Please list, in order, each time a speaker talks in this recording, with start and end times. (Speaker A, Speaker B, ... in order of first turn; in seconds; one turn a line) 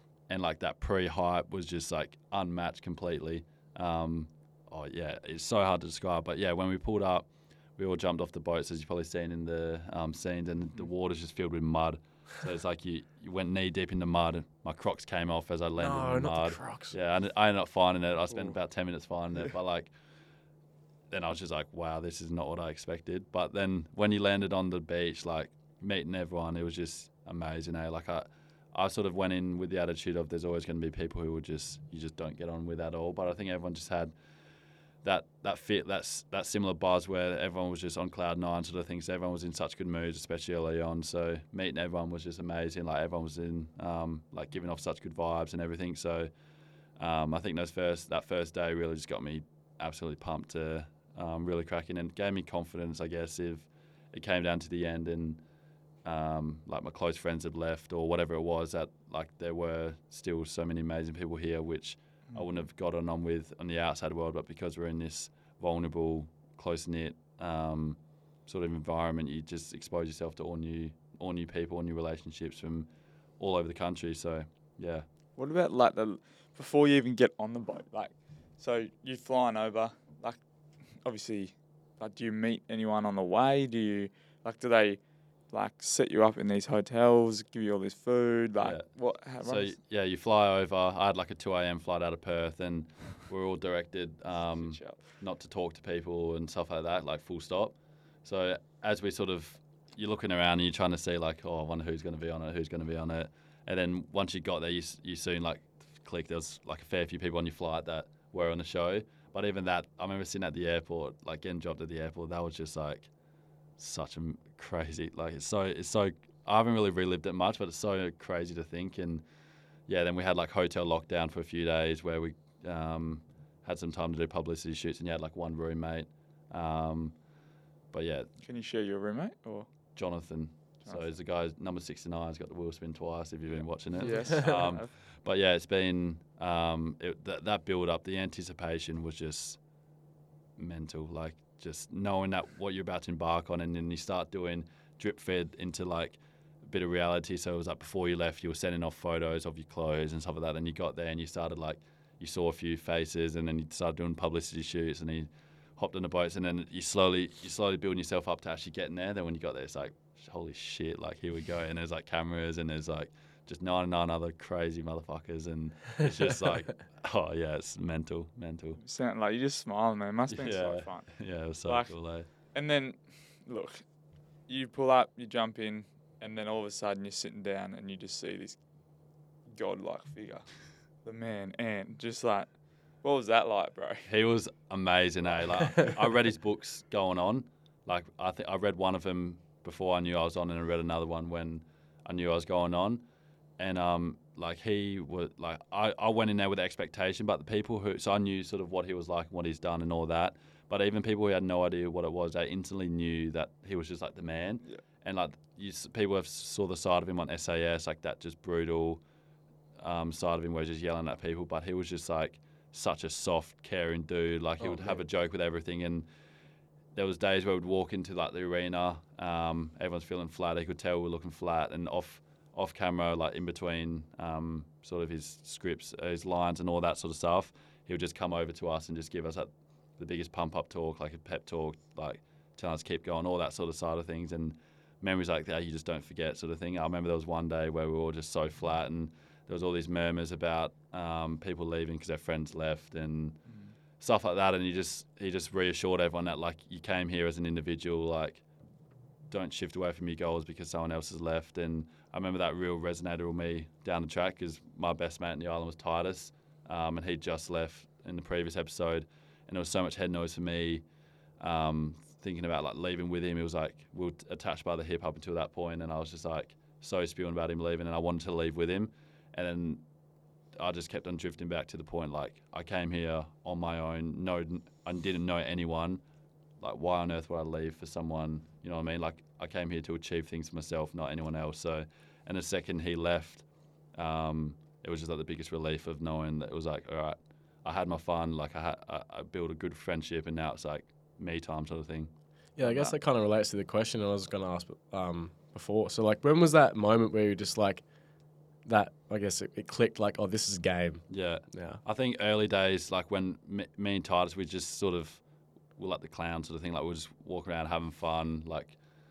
Speaker A: 0.3-19.9
Speaker B: 15.8-17.0
Speaker A: 21.1-34.1
Speaker A: 35.0-46.3
Speaker A: 47.0-55.4
Speaker A: 56.0-75.1
Speaker C: 75.4-80.4
Speaker C: 81.0-89.8
Speaker A: 88.6-88.9
Speaker A: 89.4-113.1
Speaker C: 94.4-95.0
Speaker A: 113.8-119.2
Speaker A: 119.9-127.2
Speaker A: 127.9-128.3
Speaker C: 128.4-129.7
Speaker A: 130.0-139.6
Speaker C: 130.8-131.1
Speaker C: 133.9-134.9
Speaker A: 140.6-168.8
Speaker C: 168.8-171.9
Speaker A: 170.3-172.3
Speaker C: 172.5-173.8
Speaker C: 174.5-178.6
Speaker C: 179.5-180.4
Speaker C: 181.1-182.5
Speaker C: 183.0-184.1
Speaker A: 184.1-193.0
Speaker A: 193.6-209.0
Speaker A: 209.8-216.1
Speaker A: 216.9-243.4
Speaker A: 244.0-248.4
Speaker A: 249.3-260.8
Speaker A: 261.4-269.8
Speaker A: 270.6-276.0
Speaker A: 276.6-292.9
Speaker B: 292.6-297.8
Speaker B: 298.6-301.8
Speaker A: 301.1-305.2
Speaker A: 305.8-308.8